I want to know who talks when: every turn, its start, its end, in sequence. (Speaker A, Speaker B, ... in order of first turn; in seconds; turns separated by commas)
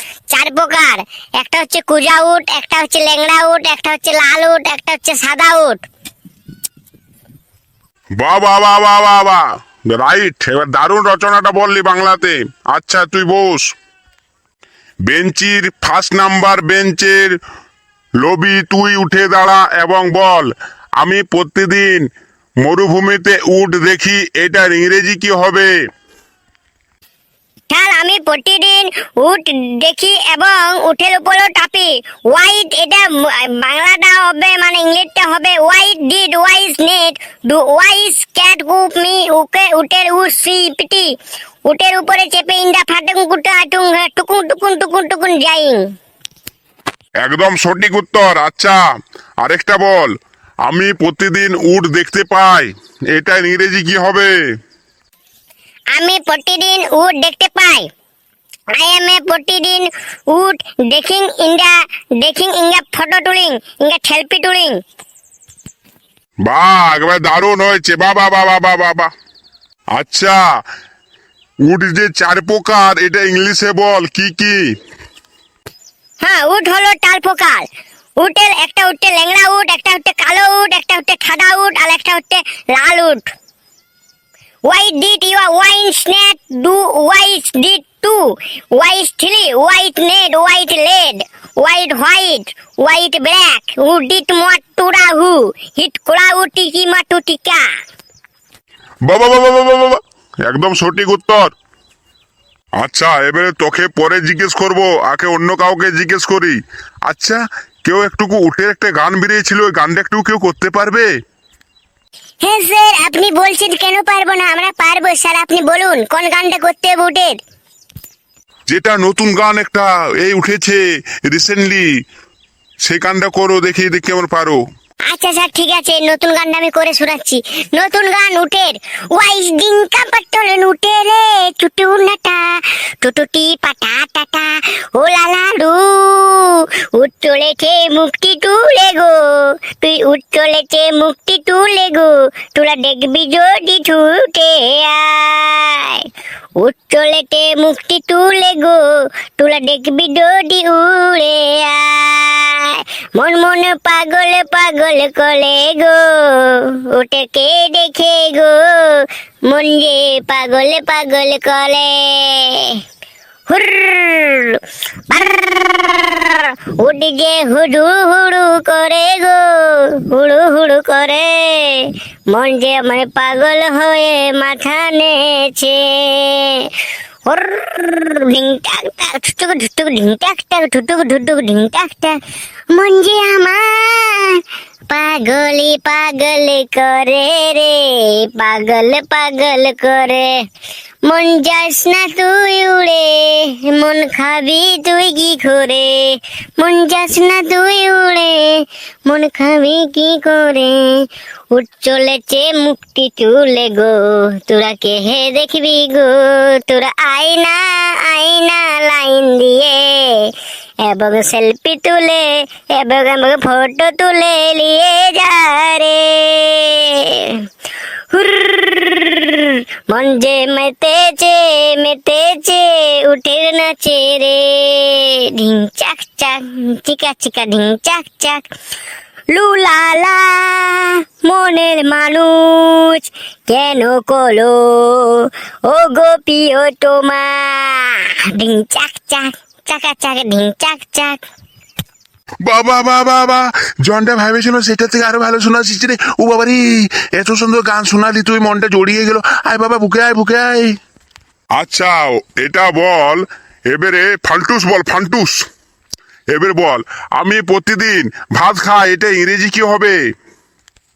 Speaker A: 0.3-5.8, Speaker B: 8.2-13.7, Speaker B: 15.1-17.3, Speaker B: 18.2-20.5, Speaker B: 21.0-22.0, Speaker B: 22.6-25.7, Speaker A: 27.7-41.1, Speaker A: 41.7-45.8, Speaker B: 47.2-48.8, Speaker B: 49.4-50.1, Speaker B: 50.7-54.3, Speaker A: 56.0-57.9, Speaker A: 58.7-64.8, Speaker B: 66.5-69.1, Speaker B: 70.0-70.4, Speaker B: 71.7-74.6, Speaker A: 76.2-77.7, Speaker A: 78.2-83.3, Speaker A: 84.7-97.7, Speaker B: 99.1-101.5, Speaker B: 102.8-111.1, Speaker A: 112.4-117.4, Speaker B: 118.7-120.8, Speaker B: 121.3-121.9, Speaker B: 122.8-124.6, Speaker A: 125.1-139.2, Speaker A: 139.7-146.1, Speaker A: 146.6-162.8, Speaker A: 163.5-176.7, Speaker A: 177.3-182.2, Speaker A: 182.7-190.4, Speaker A: 191.1-210.3, Speaker A: 210.8-217.4, Speaker A: 218.1-228.4, Speaker A: 229.3-241.2, Speaker B: 242.4-250.7, Speaker B: 251.6-255.4, Speaker B: 256.3-260.0